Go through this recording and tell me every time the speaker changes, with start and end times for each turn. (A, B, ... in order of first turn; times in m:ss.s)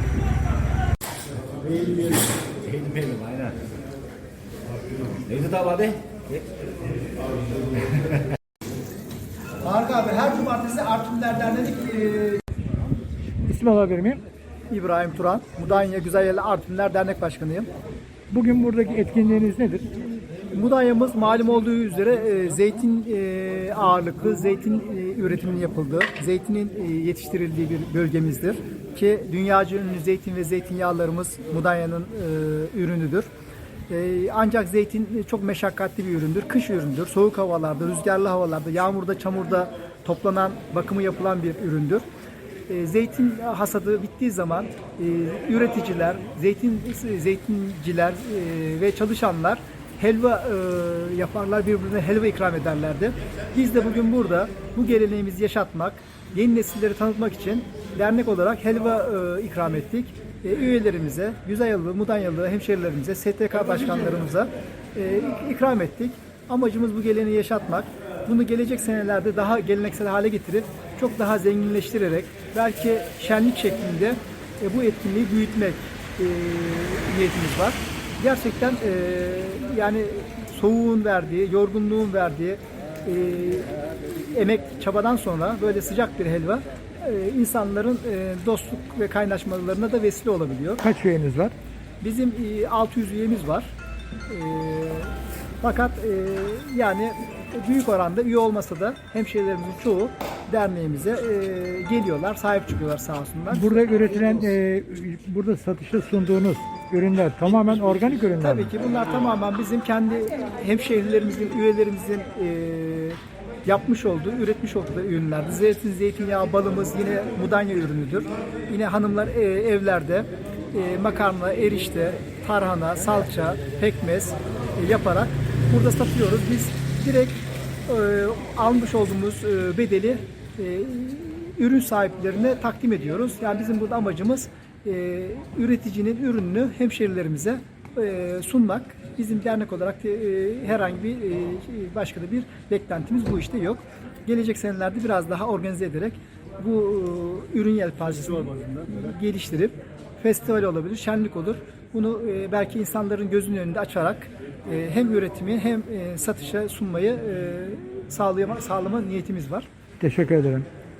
0:02.6-0:03.6 A
0:05.2-0:06.4 A
0:09.6-0:12.4 B
0:13.5-0:14.2 C
0:14.7-0:17.7 B
0:18.3-0:19.8 C
0:20.5-0:33.3 B
0:33.9-0:42.0 B
0:42.7-1:30.8 B
1:30.8-1:31.5 C
1:32.0-1:33.7 B
1:34.3-1:43.8 B
1:43.5-1:48.7 C
1:48.4-2:39.7 B
2:40.0-2:40.6 C